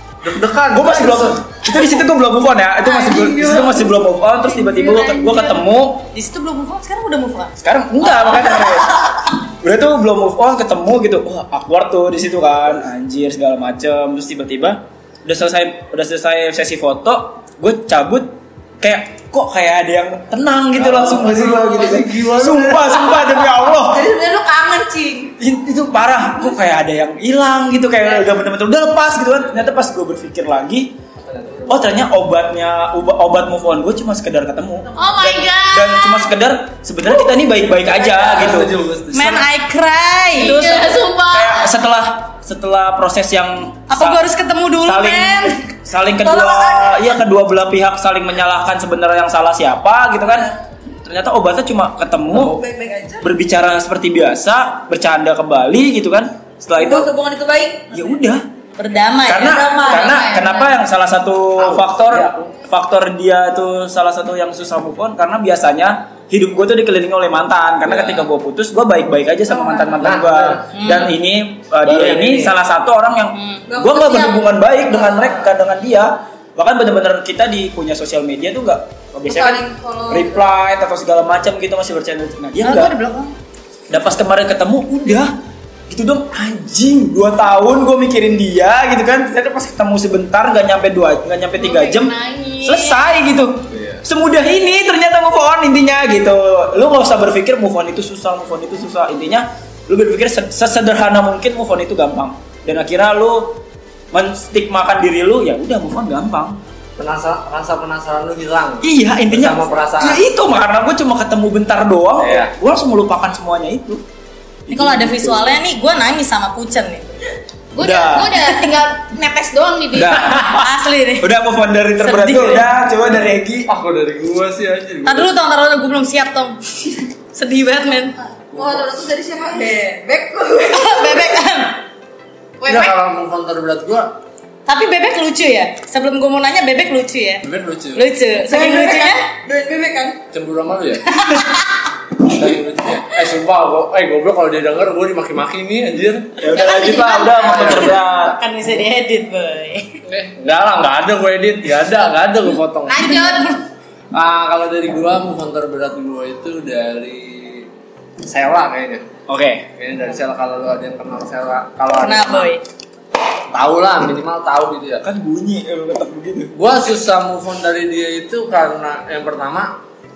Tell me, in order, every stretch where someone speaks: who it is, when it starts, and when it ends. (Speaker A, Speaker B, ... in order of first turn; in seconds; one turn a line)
Speaker A: 0.2-1.4
Speaker B: 0.7-6.1
Speaker C: 3.0-3.8
Speaker D: 3.2-3.6
Speaker D: 4.5-5.6
Speaker E: 6.1-9.1
Speaker B: 7.6-24.1
Speaker A: 20.8-23.1
Speaker C: 23.2-25.4
Speaker B: 25.4-30.9
Speaker A: 31.2-31.9
Speaker B: 31.7-38.7
Speaker D: 35.0-36.3
Speaker A: 37.9-39.5
Speaker E: 39.1-40.7
Speaker D: 40.4-41.7
Speaker B: 40.4-44.2
Speaker E: 43.9-45.6
Speaker B: 44.8-52.6
Speaker C: 46.2-47.2
Speaker C: 52.3-53.3
Speaker B: 53.2-57.1
Speaker C: 56.8-58.2
Speaker B: 57.9-58.5
Speaker E: 58.8-59.6
Speaker B: 59.2-83.0
Speaker C: 59.4-60.6
Speaker A: 61.6-62.5
Speaker A: 67.9-68.3
Speaker C: 69.5-70.0
Speaker A: 70.0-70.7
Speaker E: 70.7-71.1
Speaker A: 71.8-72.6
Speaker C: 73.7-75.5
Speaker C: 79.3-80.4
Speaker E: 82.6-83.3
Speaker B: 83.9-85.3
Speaker B: 85.9-106.6
Speaker D: 91.6-93.0
Speaker A: 93.7-94.0
Speaker A: 107.0-110.2
Speaker B: 108.8-114.0
Speaker A: 112.2-112.5
Speaker B: 114.7-115.6
Speaker E: 114.7-117.2
Speaker D: 117.7-120.3
Speaker B: 117.8-118.4
Speaker E: 118.4-118.7
Speaker B: 119.9-123.7
Speaker E: 120.4-121.3
Speaker E: 122.0-122.7
Speaker A: 123.7-125.3
Speaker E: 125.1-128.2
Speaker A: 128.5-128.9
Speaker C: 128.5-131.3
Speaker E: 130.6-131.8
Speaker D: 132.6-133.0
Speaker A: 132.6-134.2
Speaker E: 134.7-139.2
Speaker A: 137.4-138.1
Speaker C: 138.4-140.2
Speaker A: 140.3-141.2
Speaker E: 141.1-141.7
Speaker A: 142.2-146.5
Speaker B: 146.4-148.4
Speaker E: 146.5-150.0
Speaker A: 147.4-148.4
Speaker A: 150.1-153.2
Speaker D: 152.9-153.6
Speaker E: 153.1-153.6
Speaker A: 154.1-157.7
Speaker A: 158.2-159.1
Speaker B: 159.3-159.7
Speaker A: 159.8-162.5
Speaker E: 161.9-162.6
Speaker A: 163.5-165.1
Speaker B: 165.0-166.5
Speaker A: 166.5-169.8